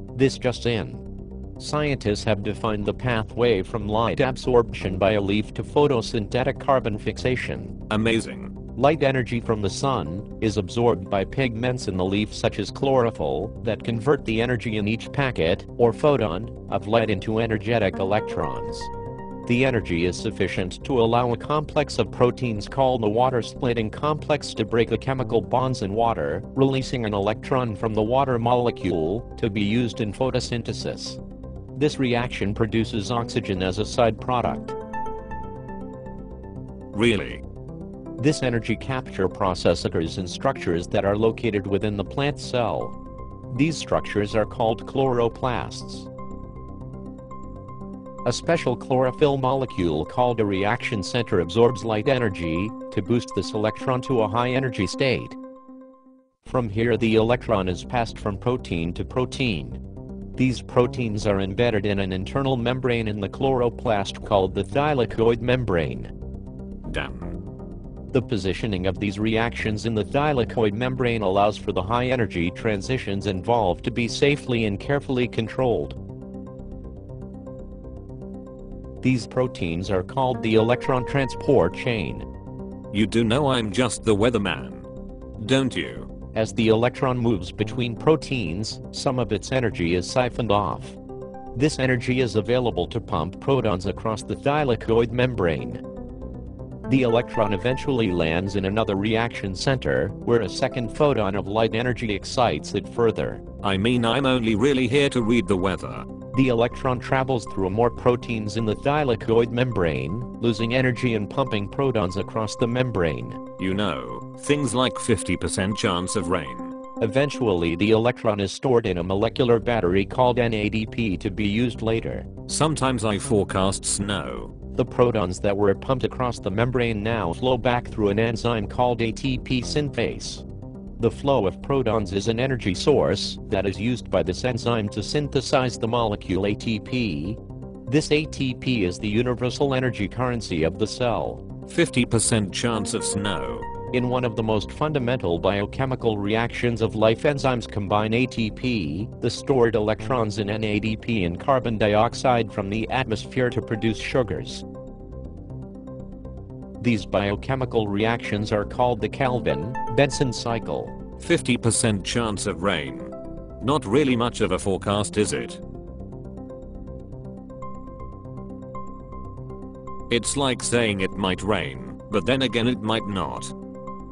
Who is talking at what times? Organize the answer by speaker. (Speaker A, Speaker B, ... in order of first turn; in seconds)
Speaker A: 0.1-1.0, 1.6-7.8, 8.7-18.9, 19.4-31.2, 31.7-34.8, 38.2-43.0, 43.5-46.1, 48.2-55.4, 56.4-59.8, 60.4-66.1, 68.1-76.0, 79.0-82.2, 86.3-91.0, 91.5-95.8, 96.9-103.4, 106.3-113.4, 117.0-122.3, 124.7-130.4, 131.0-141.4, 143.9-154.6, 156.8-160.9
Speaker B: 7.9-8.5, 36.9-37.4, 66.8-67.3, 82.9-84.9, 85.4-86.1, 103.6-106.0, 113.6-116.7, 122.5-124.5, 141.7-143.7, 161.2-165.6, 170.1-173.5